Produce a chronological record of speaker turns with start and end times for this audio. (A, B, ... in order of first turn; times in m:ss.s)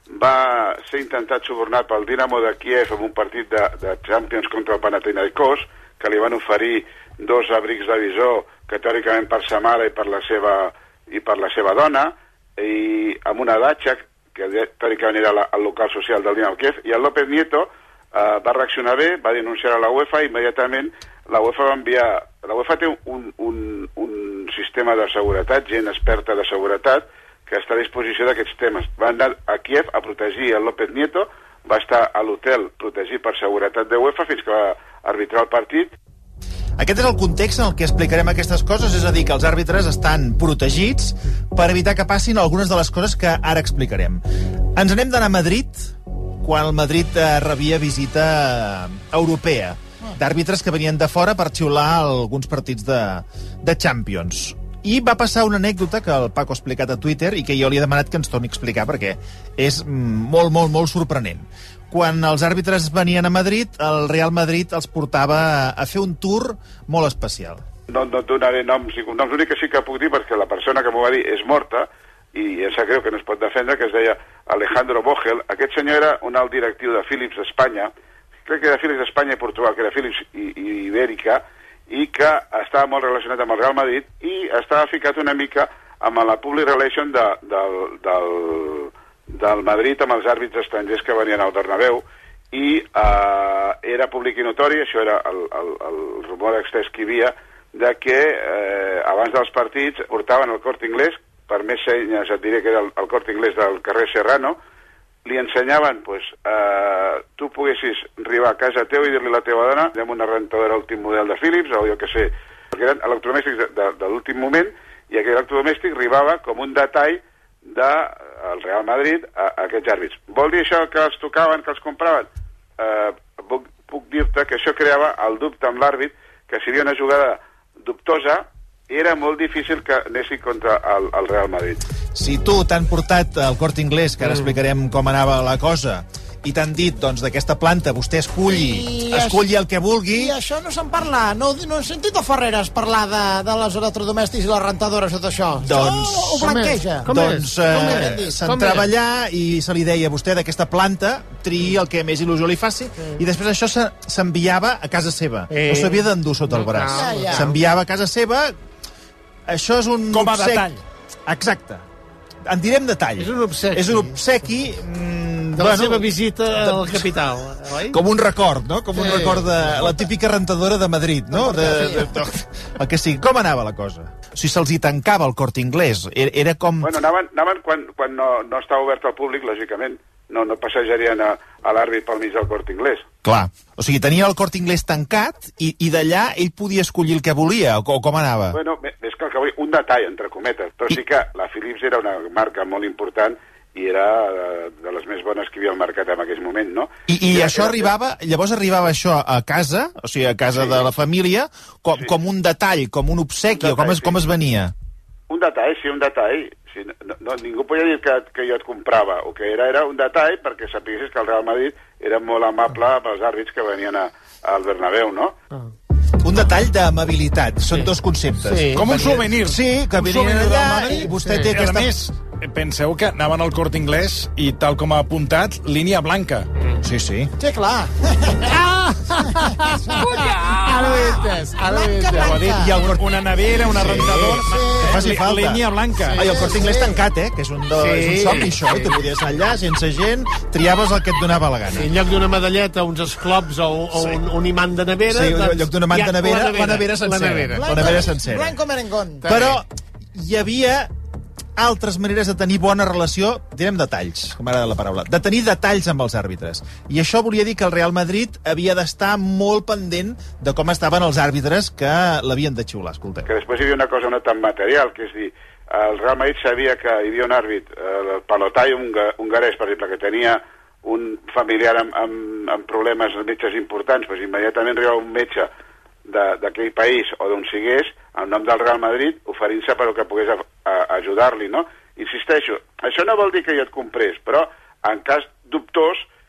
0:00.1-0:35.9 A
0:36.8-0:44.2 B
0:44.8-1:07.6 B
1:07.9-1:17.9 A
1:18.5-1:44.6 A
1:45.2-2:11.8 A
2:12.1-2:20.3 B
2:14.2-2:14.6 C
2:18.4-2:19.4 D
2:20.1-2:28.6 D
2:25.6-2:38.5 B
2:26.4-2:28.9 C
2:35.5-2:37.5 C
2:36.9-2:37.5 D
2:39.5-2:40.7 B
2:40.1-2:40.8 E
2:41.3-2:41.8 B
2:42.5-2:47.1 B
2:43.2-2:44.2 C
2:45.6-2:48.0 C
2:47.9-2:56.9 B
2:48.9-2:49.8 C
2:56.8-3:03.1 A
3:03.2-3:08.6 B
3:08.5-3:17.9 A
3:17.1-3:24.7 B
3:23.5-3:24.2 A
3:25.3-3:35.3 A
3:36.2-3:38.7 B
3:37.7-3:39.0 C
3:38.7-3:46.5 E
3:39.3-3:41.9 B
3:41.1-3:41.5 C
3:46.8-3:47.3 B
3:47.4-3:47.9 D
3:48.5-3:52.4 C
3:49.9-3:52.7 D
3:52.2-3:56.4 E
3:52.6-3:53.0 B
3:53.8-3:55.6 B
3:54.5-3:54.8 D
3:56.1-3:56.7 C
3:56.1-4:01.9 B
3:56.5-3:56.9 D
3:57.8-3:58.9 C
4:01.7-4:08.1 C
4:05.1-4:08.6 B
4:07.6-4:09.3 D
4:09.2-4:09.6 C
4:09.2-4:10.9 B
4:11.6-4:23.3 B
4:23.3-4:35.5 A
4:36.1-4:46.0 A